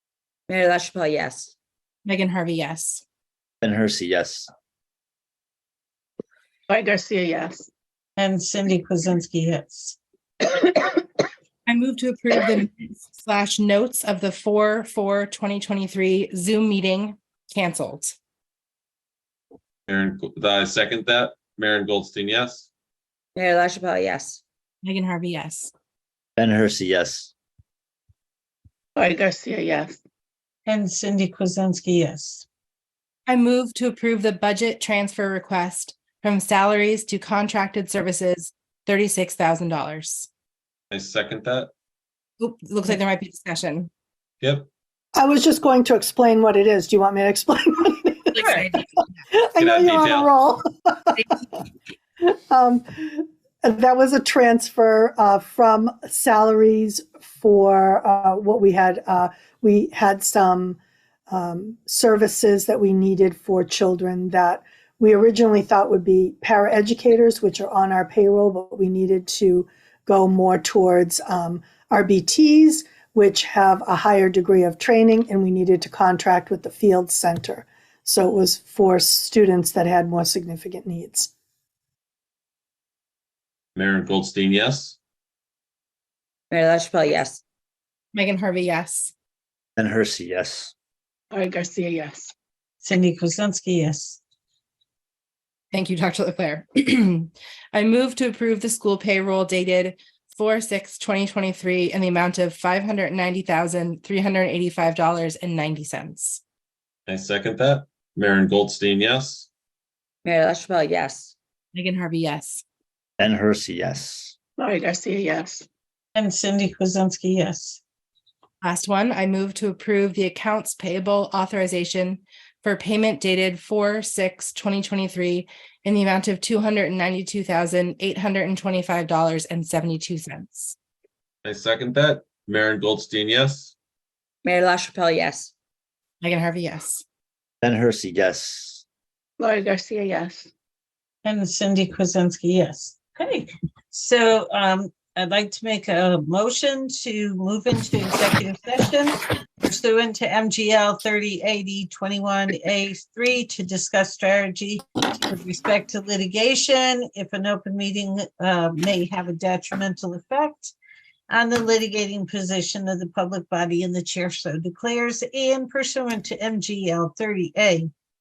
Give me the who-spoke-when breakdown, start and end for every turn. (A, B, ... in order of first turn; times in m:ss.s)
0:00.5-0:01.5 A
0:02.0-0:03.0 B
0:03.6-0:04.5 C
0:06.7-0:07.7 D
0:08.2-0:10.0 E
0:11.6-0:18.2 B
0:19.9-0:22.7 F
0:23.4-0:24.4 A
0:24.8-0:25.7 B
0:26.4-0:27.3 C
0:29.0-0:30.0 D
0:30.6-0:32.4 E
0:33.3-0:40.3 B
0:40.9-0:41.7 F
0:42.4-0:43.9 B
0:44.4-0:44.7 F
0:45.1-0:48.8 G
0:48.4-0:48.7 A
0:49.3-0:51.3 G
0:49.6-0:50.3 F
0:52.2-1:00.8 G
1:01.3-1:21.3 G
1:23.7-1:25.0 F
1:26.5-1:27.4 A
1:28.1-1:29.1 B
1:29.8-1:30.7 C
1:31.3-1:32.3 D
1:32.8-1:34.2 E
1:35.7-1:46.4 B
1:47.1-1:49.5 F
1:50.2-1:51.3 A
1:51.7-1:52.6 B
1:53.2-1:54.3 C
1:54.6-1:55.6 D
1:56.1-1:57.8 E
1:58.6-2:10.7 B
2:11.4-2:13.7 F
2:14.4-2:15.5 A
2:16.2-2:17.0 B
2:17.6-2:18.8 C
2:19.4-2:20.5 D
2:21.2-2:40.7 E
2:41.3-2:47.9 E